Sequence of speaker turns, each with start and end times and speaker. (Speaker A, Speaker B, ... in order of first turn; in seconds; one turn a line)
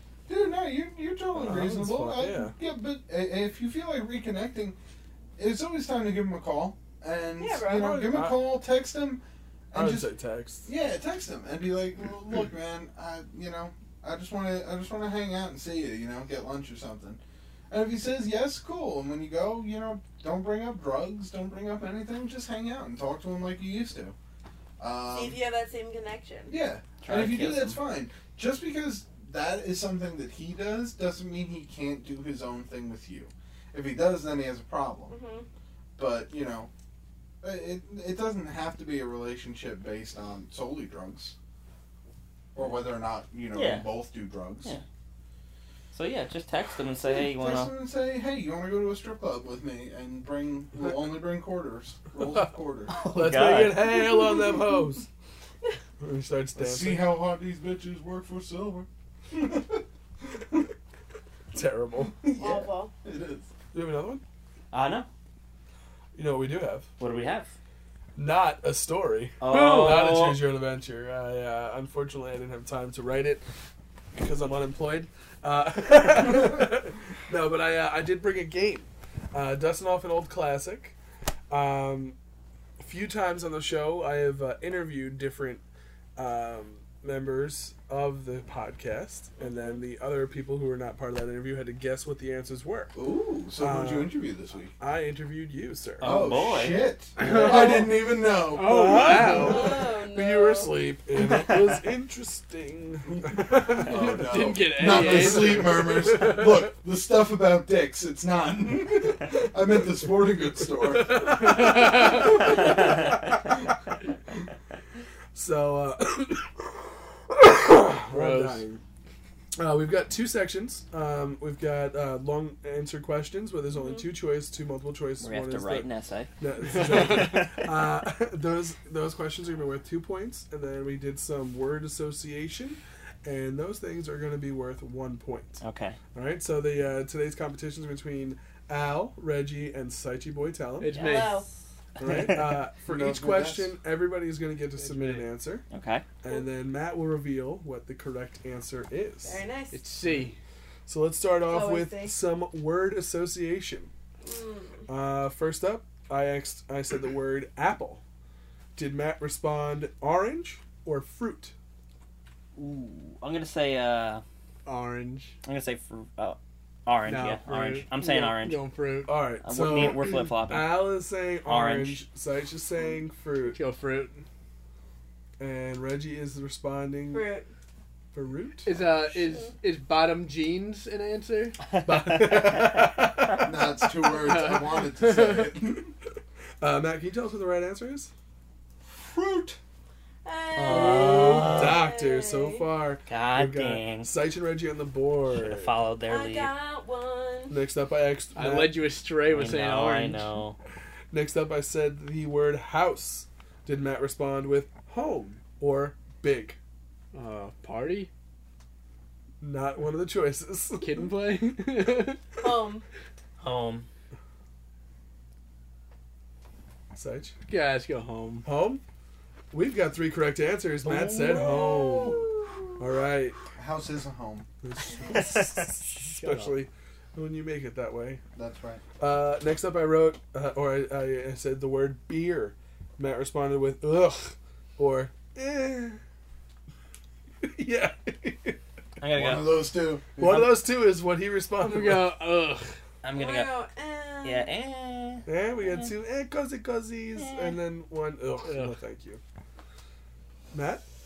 Speaker A: 0.3-4.8
Speaker B: 1.3-2.5
Speaker A: 5.4-10.1
Speaker C: 7.4-8.0
Speaker B: 7.8-8.4
Speaker B: 9.7-10.7
Speaker A: 10.7-24.2
Speaker A: 24.8-25.4
Speaker C: 25.1-26.5
Speaker A: 26.5-35.1
Speaker D: 27.0-27.8
Speaker C: 35.1-35.5
Speaker A: 36.0-36.7
Speaker A: 37.4-41.4
Speaker A: 42.5-44.8
Speaker D: 43.5-43.9
Speaker D: 45.9-47.7
Speaker A: 47.3-52.9
Speaker D: 52.9-54.0
Speaker B: 53.0-55.1
Speaker B: 56.0-57.1
Speaker A: 56.6-59.8
Speaker B: 61.5-62.1
Speaker A: 62.1-63.5
Speaker C: 62.4-62.9
Speaker B: 63.7-64.2
Speaker D: 64.7-65.1
Speaker B: 66.2-66.9
Speaker D: 67.0-67.5
Speaker B: 68.2-73.4
Speaker D: 69.4-70.5
Speaker B: 74.2-81.0
Speaker B: 81.5-82.2
Speaker B: 82.8-85.6
Speaker B: 86.2-93.0
Speaker C: 89.4-89.8
Speaker A: 92.9-94.7
Speaker B: 93.6-94.2
Speaker B: 94.8-96.2
Speaker D: 96.0-96.9
Speaker A: 96.0-99.4
Speaker E: 97.2-99.8
Speaker B: 97.3-97.8
Speaker B: 98.5-104.2
Speaker C: 99.4-100.7
Speaker A: 103.7-113.0
Speaker E: 103.9-106.0
Speaker B: 104.8-106.5
Speaker B: 111.0-113.1
Speaker E: 111.6-112.2
Speaker B: 115.3-118.8
Speaker E: 118.0-118.6
Speaker B: 119.6-125.9
Speaker C: 123.8-124.1
Speaker D: 125.2-126.3
Speaker B: 126.4-135.6
Speaker E: 126.7-127.4
Speaker D: 135.6-136.0
Speaker B: 136.1-141.0
Speaker E: 140.8-141.4
Speaker D: 140.9-141.4
Speaker C: 140.9-141.5
Speaker B: 142.0-145.6
Speaker D: 142.0-142.6
Speaker A: 142.8-143.8
Speaker E: 144.8-145.3
Speaker D: 145.7-146.1
Speaker B: 146.2-149.4
Speaker C: 149.2-149.9
Speaker E: 149.7-150.4
Speaker B: 150.9-153.9
Speaker C: 151.5-152.2
Speaker C: 154.2-154.9
Speaker B: 154.9-158.0
Speaker B: 158.8-161.5
Speaker D: 162.6-164.2
Speaker E: 164.7-165.3
Speaker D: 165.4-168.6
Speaker E: 167.1-169.2
Speaker B: 169.1-173.6
Speaker D: 169.4-172.1
Speaker E: 173.5-174.2
Speaker B: 175.4-177.3
Speaker C: 177.1-177.5
Speaker B: 178.1-179.3
Speaker E: 178.7-181.7
Speaker D: 181.7-183.0
Speaker B: 181.8-183.5
Speaker A: 183.4-185.9
Speaker E: 184.2-185.5
Speaker B: 186.6-188.1
Speaker A: 188.9-189.6
Speaker C: 190.2-192.7
Speaker D: 190.6-191.8
Speaker B: 190.6-195.7
Speaker D: 193.1-194.1
Speaker D: 195.3-196.5
Speaker C: 196.1-197.5
Speaker B: 197.5-198.8
Speaker E: 198.3-200.3
Speaker D: 199.3-200.6
Speaker B: 201.1-206.6
Speaker E: 207.1-208.1
Speaker B: 209.4-211.1
Speaker E: 210.8-212.2
Speaker C: 212.4-212.8
Speaker D: 213.4-213.9
Speaker B: 216.9-217.3
Speaker E: 217.5-218.5
Speaker B: 218.4-218.8
Speaker B: 219.5-222.2
Speaker A: 221.2-222.3
Speaker D: 221.2-221.6
Speaker C: 221.7-222.2
Speaker B: 222.8-223.4
Speaker A: 223.6-224.5
Speaker B: 224.6-228.2
Speaker D: 225.1-225.7
Speaker E: 226.0-226.6
Speaker A: 228.4-228.8
Speaker B: 229.0-236.0
Speaker B: 237.4-238.6
Speaker D: 239.0-239.6
Speaker A: 239.2-240.5
Speaker B: 240.2-242.2
Speaker E: 241.6-242.7
Speaker D: 243.0-243.6
Speaker C: 243.2-244.5
Speaker D: 244.2-245.9
Speaker B: 245.3-249.2
Speaker D: 247.2-247.6
Speaker E: 248.4-248.8
Speaker B: 250.5-250.8